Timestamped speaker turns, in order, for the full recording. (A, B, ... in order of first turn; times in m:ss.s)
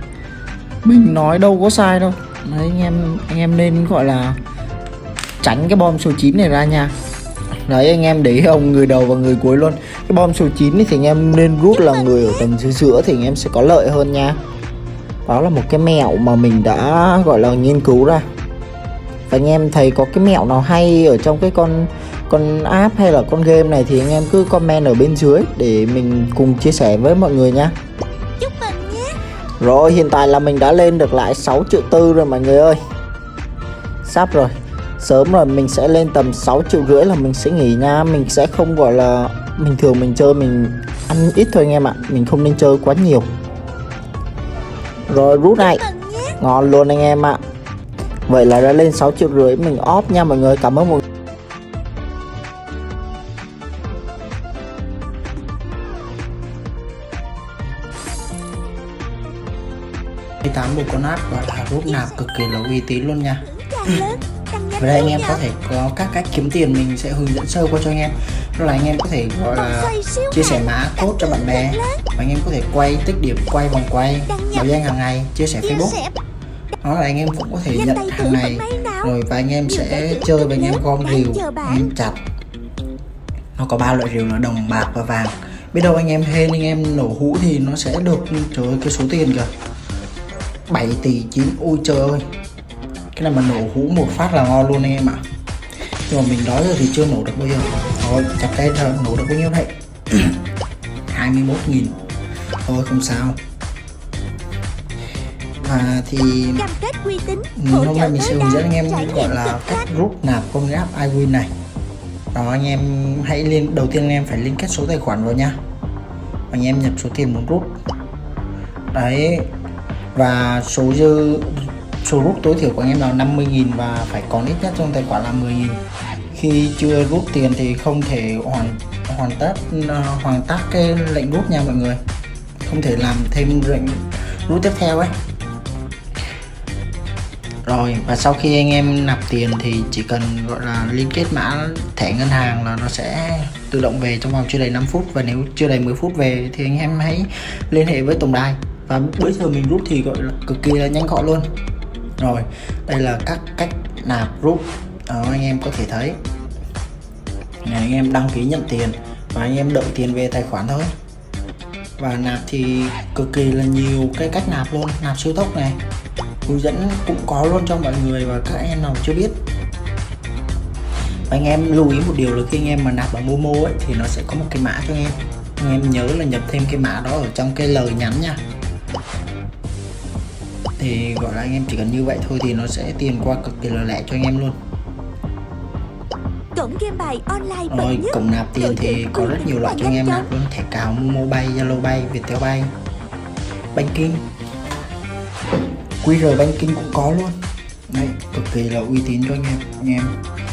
0:00.8-0:04.4 A
0:05.4-0:06.9 A
0:07.7-0:14.4 A
0:15.3-0:18.3 A
0:19.3-0:27.7 A
0:28.4-0:29.2 B
0:29.6-0:32.8 A
0:34.0-0:43.3 A
0:45.1-0:45.9 A
0:45.5-0:46.4 B
0:46.4-0:47.4 A
0:48.3-0:51.0 A
1:00.4-1:03.5 A
1:03.4-1:05.4 B
1:04.8-1:16.0 A
1:09.5-1:12.0 B
1:14.3-1:14.6 B
1:15.6-1:16.1 B
1:16.8-1:22.2 A
1:17.7-1:19.1 B
1:19.7-1:21.9 B
1:23.6-1:29.5 A
1:30.7-1:32.3 A
1:33.2-1:35.2 A
1:36.1-1:40.4 A
1:41.1-1:42.0 A
1:42.7-1:43.4 A
1:45.6-1:46.7 A
1:46.6-1:49.9 B
1:47.6-1:51.5 A
1:52.3-1:55.6 A
1:56.5-1:57.7 A
1:58.9-1:59.5 A
2:00.2-2:05.8 A
2:06.3-2:12.0 A
2:12.6-2:15.1 A
2:17.7-2:31.5 A
2:32.2-2:36.2 A
2:37.6-2:40.9 A
2:42.0-2:45.8 A
2:46.5-2:49.4 A
2:51.3-2:58.4 A
3:00.8-3:04.6 A
3:06.6-3:10.3 B
3:07.7-3:12.7 A
3:13.7-3:14.2 A
3:16.0-3:20.2 A